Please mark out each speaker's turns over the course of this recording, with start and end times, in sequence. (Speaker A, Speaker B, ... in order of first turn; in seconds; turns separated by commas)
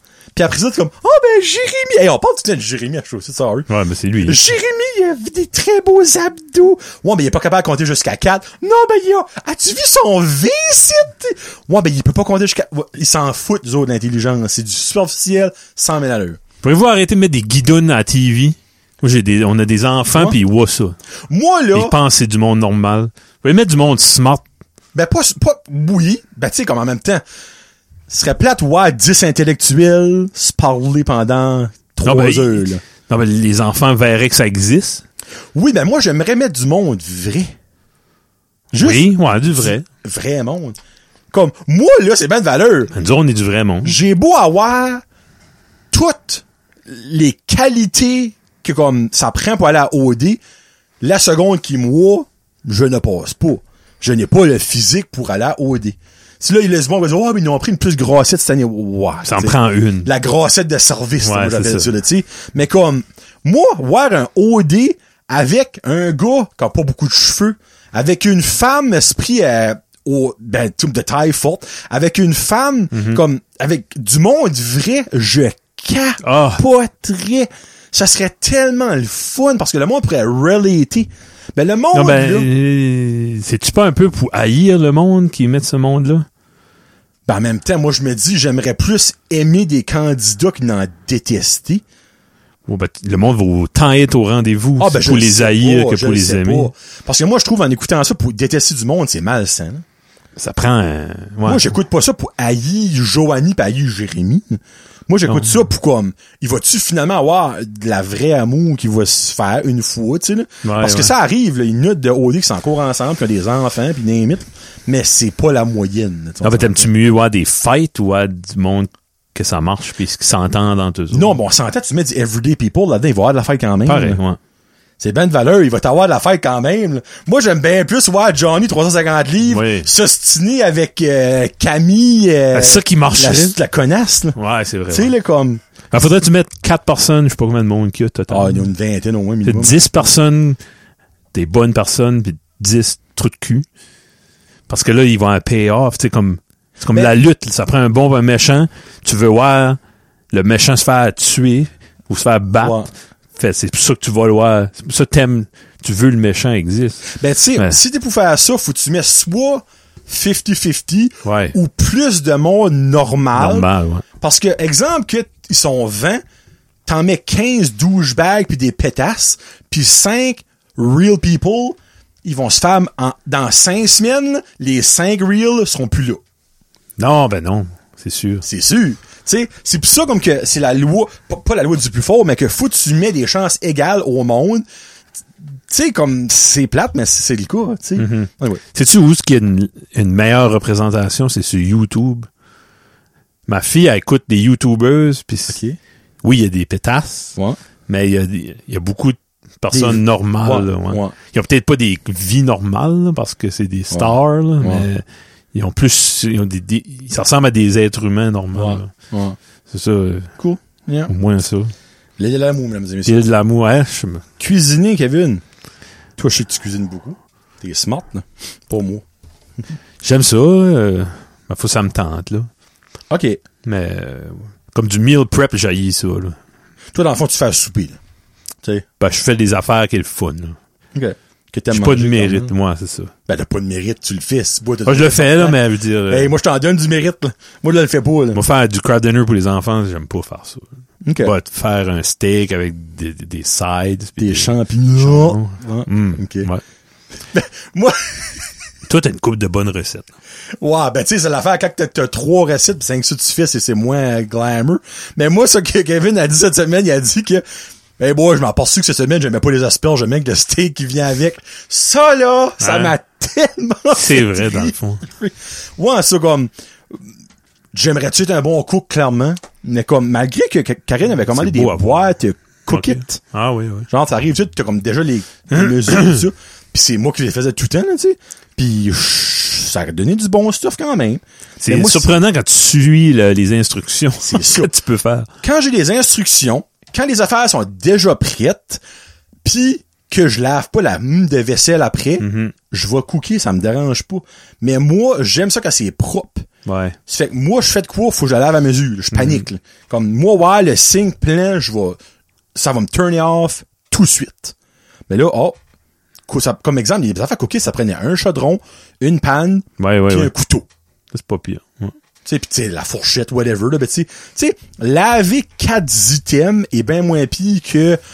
Speaker A: 0.3-3.7, Speaker B: 3.7-4.4, Speaker A: 4.2-16.4, Speaker B: 16.6-21.0, Speaker A: 21.3-21.9, Speaker B: 21.7-24.4, Speaker A: 24.9-27.2, Speaker A: 28.1-32.8, Speaker B: 32.0-35.0, Speaker A: 35.5-37.5, Speaker A: 38.7-40.8, Speaker B: 38.8-39.9, Speaker A: 41.3-42.9, Speaker B: 42.9-44.0, Speaker A: 43.8-45.0, Speaker A: 45.9-50.4, Speaker A: 51.0-82.5, Speaker B: 59.2-60.1, Speaker B: 61.2-61.9, Speaker B: 72.9-73.2, Speaker B: 76.2-76.6, Speaker B: 81.9-86.3, Speaker A: 87.3-91.8, Speaker B: 92.7-96.7, Speaker A: 94.8-99.8, Speaker B: 100.4-101.7, Speaker A: 101.4-116.9, Speaker B: 105.2-105.5, Speaker B: 110.6-111.1, Speaker B: 116.4-121.3, Speaker A: 121.1-124.2, Speaker B: 123.8-124.4, Speaker A: 125.0-134.4, Speaker B: 129.5-129.9, Speaker B: 132.5-133.6, Speaker B: 134.3-135.1, Speaker A: 134.9-135.6, Speaker B: 135.9-138.7, Speaker A: 138.3-140.1, Speaker B: 139.4-140.6, Speaker B: 141.3-143.7, Speaker B: 144.7-149.8, Speaker B: 150.3-152.8, Speaker A: 152.6-152.9, Speaker B: 153.3-157.8, Speaker A: 157.1-163.7, Speaker B: 161.2-161.5, Speaker B: 163.3-164.0, Speaker A: 164.2-166.2, Speaker A: 166.8-176.2, Speaker B: 177.0-178.4, Speaker A: 178.4-184.6, Speaker A: 185.7-188.6, Speaker B: 188.0-192.3, Speaker B: 193.5-195.6, Speaker A: 195.5-195.8, Speaker B: 196.2-197.3, Speaker B: 197.9-208.9, Speaker A: 199.7-201.1, Speaker A: 203.9-204.8, Speaker A: 208.5-209.4, Speaker B: 209.7-210.3, Speaker A: 210.4-211.1, Speaker B: 211.1-211.7, Speaker A: 212.2-213.2, Speaker B: 213.1-214.2, Speaker A: 214.4-215.4, Speaker A: 216.2-219.0, Speaker B: 220.0-222.5, Speaker A: 223.1-223.4, Speaker B: 223.6-226.3, Speaker A: 226.9-228.0, Speaker B: 229.0-230.6, Speaker A: 230.9-232.5, Speaker B: 231.7-233.1, Speaker A: 233.3-238.4, Speaker B: 234.8-236.3, Speaker B: 238.3-240.7, Speaker A: 241.0-241.3, Speaker B: 241.2-246.6, Speaker A: 244.2-246.5, Speaker A: 247.3-248.4, Speaker B: 248.9-250.1, Speaker A: 250.6-257.4, Speaker A: 258.0-267.0, Speaker B: 262.6-262.9, Speaker B: 263.9-265.0, Speaker A: 267.7-273.2, Speaker B: 271.3-272.1, Speaker B: 272.7-273.9, Speaker A: 273.9-282.1, Speaker B: 275.5-276.2, Speaker B: 281.6-285.3, Speaker A: 284.2-284.7, Speaker A: 285.4-288.8, Speaker A: 289.4-296.5, Speaker B: 292.2-292.5, Speaker B: 296.6-297.0, Speaker A: 297.1-302.0, Speaker B: 299.1-299.4, Speaker A: 302.5-304.5, Speaker A: 305.1-305.6, Speaker A: 306.3-310.6, Speaker B: 309.8-310.3, Speaker B: 311.1-311.9, Speaker A: 312.2-318.0